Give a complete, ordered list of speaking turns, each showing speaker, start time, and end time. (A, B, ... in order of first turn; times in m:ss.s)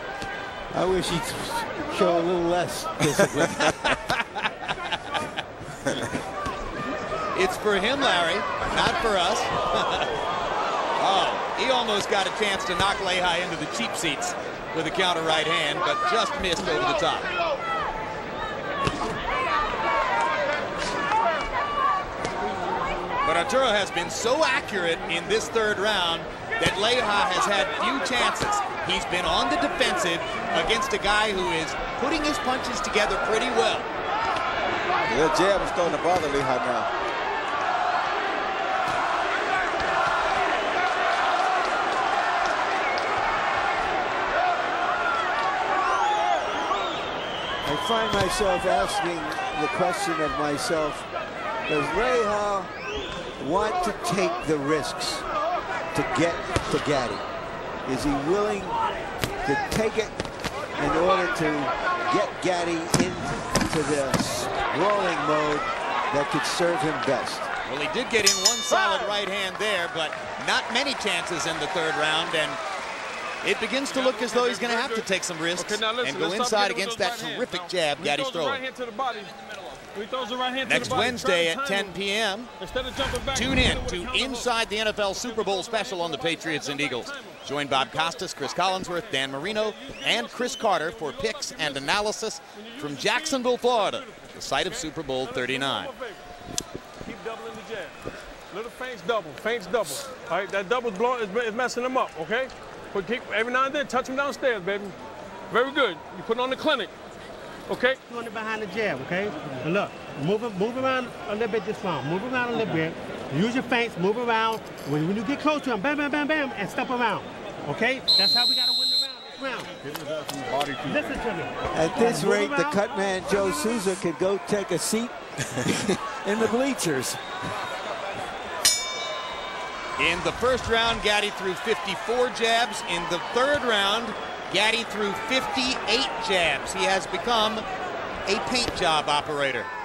0:00.7-0:03.5 A
0:03.2-0:03.7 B
0:03.3-0:05.3 C
0:07.3-0:10.1 C
0:11.0-0:17.4 C
0:23.2-0:33.9 C
0:35.0-0:36.9 B
0:47.6-0:51.1 A
0:51.7-0:52.7 A
0:53.4-0:55.3 A
0:55.9-0:57.2 A
0:57.9-0:58.8 A
0:59.4-1:00.2 A
1:00.8-1:07.5 A
1:07.7-1:12.6 C
1:13.4-1:18.6 C
1:13.8-1:19.4 D
1:19.9-1:22.0 D
1:20.6-1:22.5 C
1:22.6-1:24.5 D
1:23.3-1:35.9 C
1:25.1-1:36.2 D
1:37.0-1:38.0 D
1:38.5-1:45.0 D
1:45.5-1:46.9 D
1:47.7-1:48.0 D
1:48.1-1:59.8 E
2:00.7-2:03.8 E
2:01.7-2:07.2 A
2:10.0-2:17.7 C
2:18.3-2:19.7 C